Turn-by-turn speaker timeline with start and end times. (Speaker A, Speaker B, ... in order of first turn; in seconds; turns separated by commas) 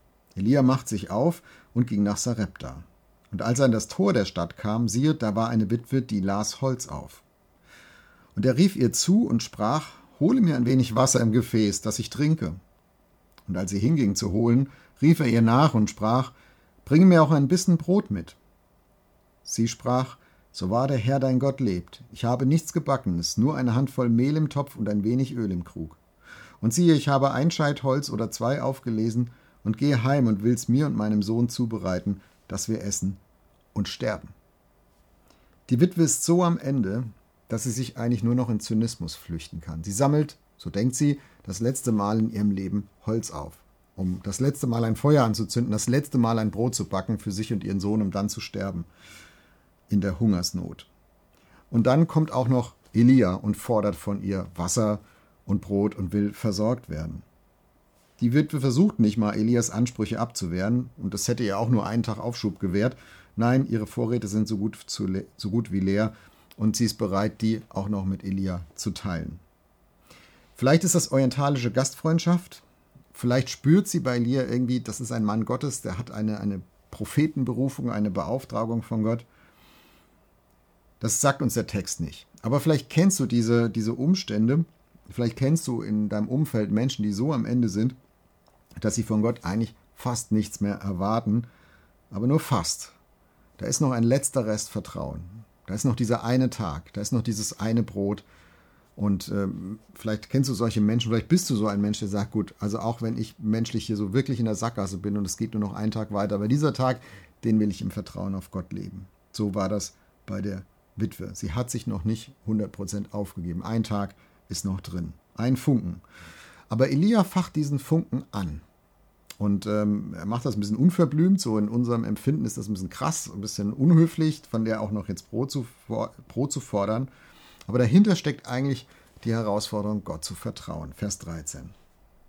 Speaker A: 0.3-7.2, Speaker A: 8.3-12.6, Speaker A: 13.5-16.3, Speaker A: 16.9-18.4, Speaker A: 19.4-26.0, Speaker A: 26.6-33.2, Speaker A: 33.7-34.4, Speaker A: 35.7-48.9, Speaker A: 49.9-50.9, Speaker A: 51.7-57.2, Speaker A: 58.2-69.4, Speaker A: 70.6-79.2, Speaker A: 81.0-88.0, Speaker A: 88.8-91.5, Speaker A: 92.1-93.0, Speaker A: 93.6-98.2, Speaker A: 99.0-116.0, Speaker A: 116.7-118.6, Speaker A: 119.4-127.1, Speaker A: 127.7-131.7